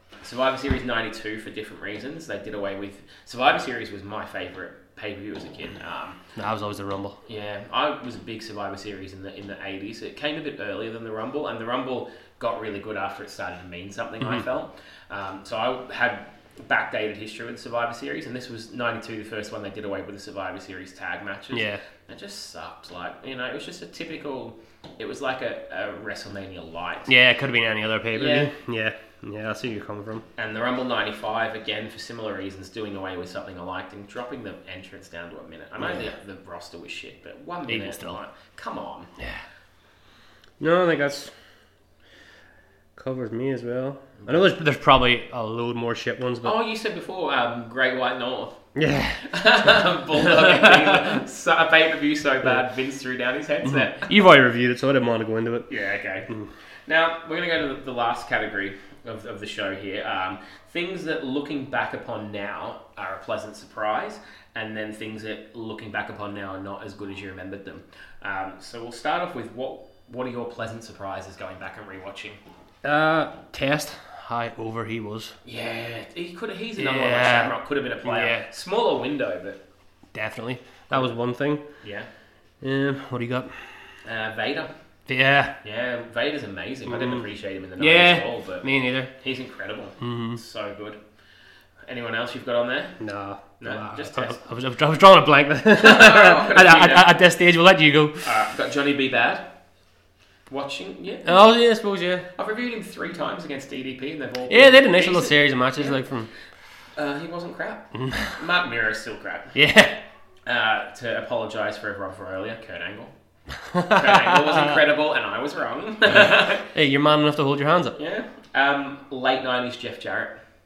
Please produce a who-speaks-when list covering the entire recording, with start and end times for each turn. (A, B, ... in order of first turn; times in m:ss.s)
0:00.2-0:06.2 A
0:06.4-0:07.2 B
0:07.2-0:27.1 A
0:21.5-0:21.8 B
0:27.1-0:30.2 B
0:28.1-0:28.5 A
0:30.4-0:39.1 A
0:35.8-0:36.1 B
0:37.7-0:38.2 B
0:40.6-0:41.3 B
0:43.0-0:46.6 B
0:44.2-0:44.5 A
0:46.4-0:48.6 A
0:48.7-0:51.2 B
0:49.2-0:54.1 A
0:53.6-0:55.7 B
0:55.7-0:56.3 A
0:56.9-1:12.4 A
1:12.8-1:15.4 B
1:15.4-1:19.6 A
1:16.8-1:18.4 B
1:20.1-1:21.6 B
1:20.9-1:21.1 A
1:21.8-1:22.1 A
1:22.6-1:23.9 B
1:24.0-1:24.7 A
1:25.1-1:25.6 B
1:25.6-1:31.0 A
1:26.9-1:29.1 B
1:30.0-1:30.4 B
1:31.9-1:33.0 A
1:33.0-1:38.3 B
1:33.6-1:34.4 A
1:35.7-1:37.1 A
1:38.2-1:39.5 A
1:40.5-1:41.4 A
1:41.3-1:42.3 B
1:42.3-1:46.0 A
1:44.5-1:46.3 B
1:47.0-1:49.6 A
1:48.0-1:48.3 B
1:49.6-1:50.0 B
1:50.4-1:53.1 A
1:53.7-1:54.6 B
1:53.8-1:56.7 A
1:56.2-1:58.0 B
1:58.0-2:00.4 A